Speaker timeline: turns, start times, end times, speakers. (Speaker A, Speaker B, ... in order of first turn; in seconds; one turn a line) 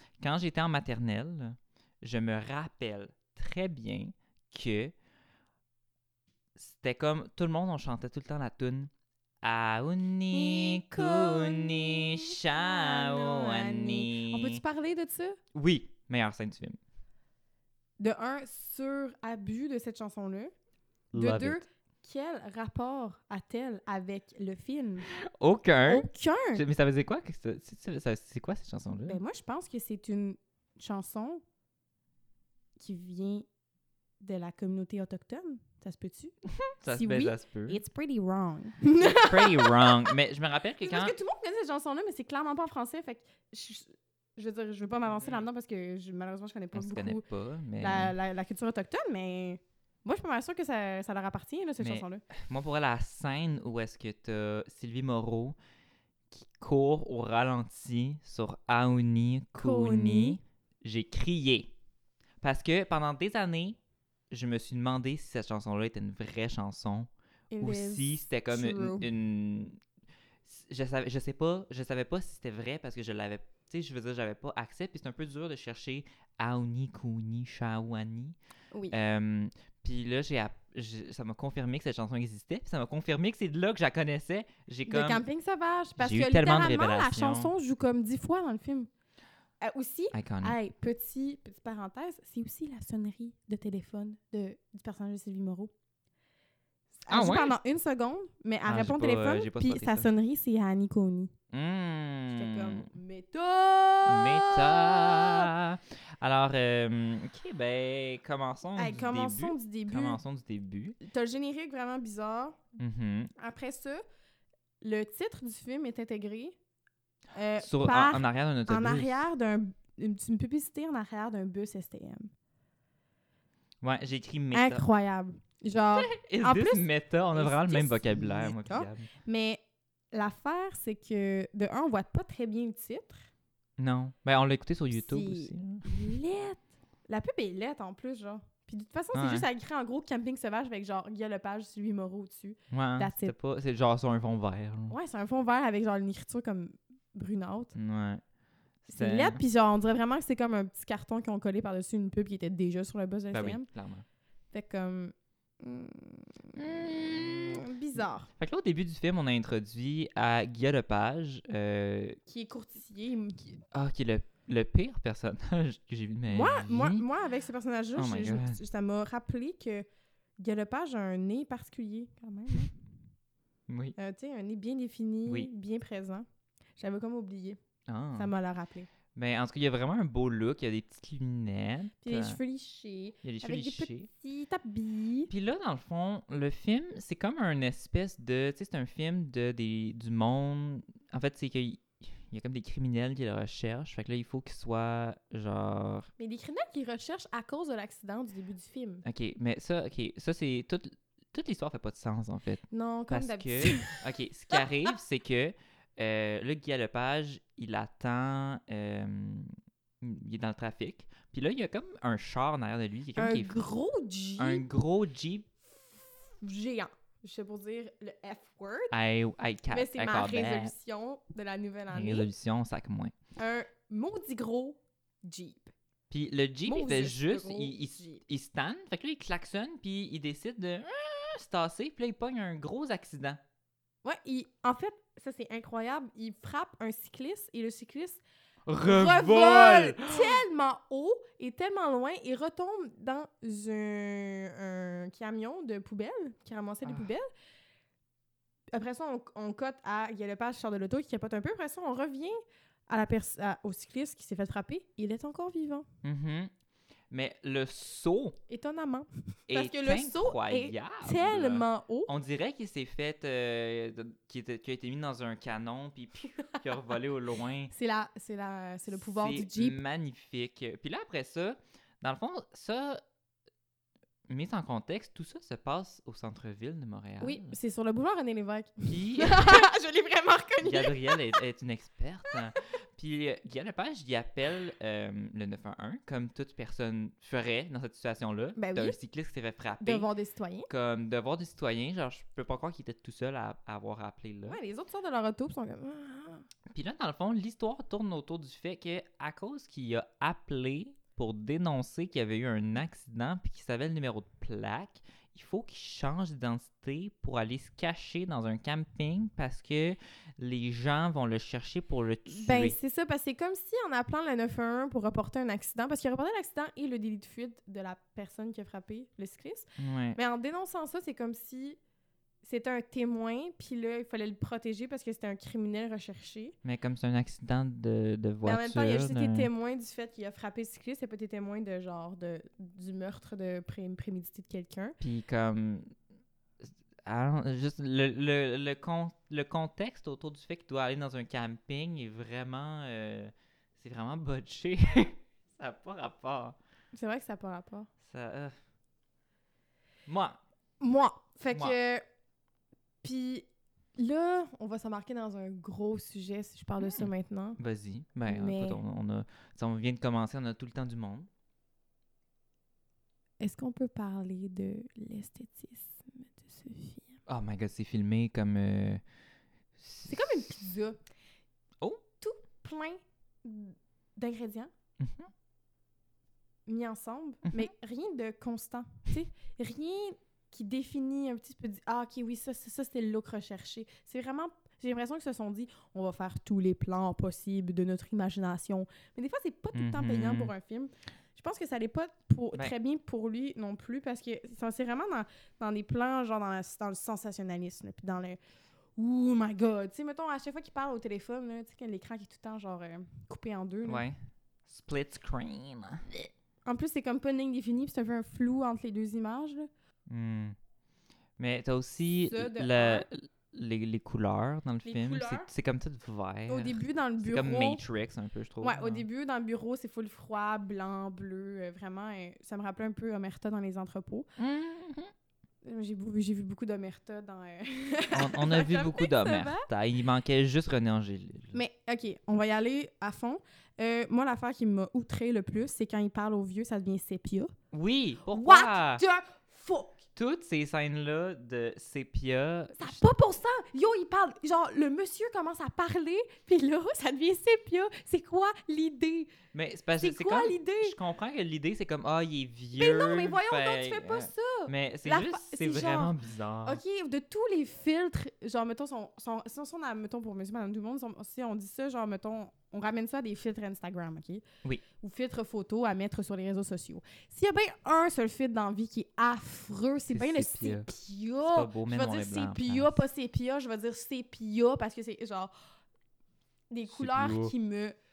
Speaker A: 0.2-4.9
Speaker A: 6.5-8.9
Speaker A: 9.4-14.6
Speaker B: 10.3-15.4
Speaker A: 15.5-16.8
Speaker B: 18.0-20.5
Speaker A: 21.1-21.6
Speaker B: 21.1-25.1
Speaker A: 25.1-29.2
Speaker B: 25.9-26.6
Speaker B: 29.1-31.4
Speaker B: 32.8-33.5
Speaker B: 34.2-36.3
Speaker A: 36.5-37.8
Speaker B: 36.9-40.1
Speaker A: 39.0-41.2
Speaker B: 40.8-47.2
Speaker A: 45.2-45.4
Speaker A: 46.7-48.1
Speaker B: 47.8-52.2
Speaker A: 51.8-55.5
Speaker A: 56.3-61.7
Speaker B: 59.6-60.4
Speaker A: 62.4-63.8
Speaker A: 64.3-69.8
Speaker B: 67.5-69.1
Speaker A: 70.4-78.3
Speaker B: 78.7-79.0
Speaker A: 78.9-85.2
Speaker B: 84.9-88.9
Speaker A: 86.0-87.5
Speaker B: 89.6-95.7
Speaker A: 90.1-90.6
Speaker B: 97.0-101.3
Speaker A: 97.1-97.5
Speaker A: 98.7-100.1
Speaker A: 101.5-102.9
Speaker B: 102.3-105.5
Speaker A: 104.0-111.0
Speaker B: 108.8-110.2
Speaker B: 111.0-112.6
Speaker A: 112.8-113.3
Speaker B: 113.4-114.0
Speaker B: 114.8-116.6
Speaker B: 117.3-122.3
Speaker A: 117.6-119.2
Speaker A: 123.8-124.8
Speaker B: 124.5-133.3
Speaker A: 126.0-129.1
Speaker A: 133.8-135.9
Speaker B: 134.9-143.3
Speaker A: 139.1-139.5
Speaker A: 142.7-144.9
Speaker B: 144.9-147.8
Speaker A: 147.7-148.2
Speaker A: 148.8-149.4
Speaker B: 148.9-153.7
Speaker A: 153.3-154.0
Speaker B: 154.5-156.6
Speaker A: 156.5-157.6
Speaker B: 157.2-158.3
Speaker A: 158.4-162.2
Speaker B: 162.3-163.5
Speaker A: 163.7-167.1
Speaker B: 166.3-169.8
Speaker A: 167.9-168.6
Speaker B: 170.4-172.7
Speaker A: 173.7-173.9
Speaker B: 174.0-176.2
Speaker A: 175.2-175.5
Speaker B: 176.8-177.6
Speaker A: 177.9-178.3
Speaker B: 178.2-178.9
Speaker A: 179.1-182.4
Speaker B: 182.0-185.3
Speaker A: 183.2-184.1
Speaker A: 185.3-196.1
Speaker B: 196.2-199.0
Speaker A: 199.0-213.6
Speaker B: 202.7-204.0
Speaker B: 213.2-214.6
Speaker A: 214.4-215.5
Speaker B: 215.8-218.9
Speaker A: 218.9-220.7
Speaker B: 219.7-222.3
Speaker A: 221.9-223.1
Speaker B: 223.4-225.7
Speaker A: 226.1-233.4
Speaker B: 226.7-228.2
Speaker B: 234.0-238.2
Speaker A: 238.7-240.4
Speaker B: 238.8-247.3
Speaker A: 246.8-247.1
Speaker B: 248.7-255.8
Speaker A: 256.0-256.5
Speaker A: 257.1-258.4
Speaker B: 258.5-262.1
Speaker A: 259.5-267.7
Speaker B: 267.7-269.8
Speaker A: 269.0-273.0
Speaker A: 274.3-277.6
Speaker B: 277.2-281.4
Speaker A: 278.9-279.7
Speaker A: 280.6-290.1
Speaker B: 288.6-289.0
Speaker B: 289.8-290.7
Speaker A: 290.7-294.6
Speaker B: 294.5-296.4
Speaker A: 296.7-312.8
Speaker B: 312.3-321.8
Speaker A: 319.8-320.2
Speaker B: 322.4-326.5
Speaker A: 326.6-329.5
Speaker B: 328.4-334.9
Speaker A: 335.0-335.9
Speaker A: 336.6-346.6
Speaker B: 346.9-347.9
Speaker A: 348.0-348.5
Speaker A: 350.1-350.4
Speaker B: 350.8-352.0
Speaker B: 353.0-357.6
Speaker A: 356.8-361.3
Speaker B: 358.3-358.8
Speaker B: 363.4-367.2
Speaker A: 367.3-369.0
Speaker A: 369.8-370.5
Speaker B: 370.1-371.0
Speaker B: 372.2-374.7
Speaker A: 375.0-375.3
Speaker B: 376.6-398.4
Speaker A: 389.7-390.5
Speaker B: 398.9-404.0
Speaker A: 403.9-406.3
Speaker B: 406.6-409.7
Speaker A: 410.1-410.6
Speaker A: 411.4-419.0
Speaker B: 412.2-413.1
Speaker B: 414.8-415.5
Speaker B: 416.5-417.8
Speaker B: 418.6-424.3
Speaker A: 424.4-425.1
Speaker B: 425.6-429.7
Speaker A: 428.1-431.6
Speaker B: 431.5-437.5
Speaker A: 437.7-439.0
Speaker B: 438.3-440.0
Speaker A: 440.1-443.1
Speaker B: 442.8-449.3
Speaker A: 449.5-456.8
Speaker B: 450.0-450.9
Speaker B: 452.7-456.1
Speaker B: 456.6-464.4
Speaker B: 465.0-475.5
Speaker A: 470.1-470.9
Speaker A: 471.4-473.0
Speaker B: 476.7-477.9
Speaker A: 476.9-477.5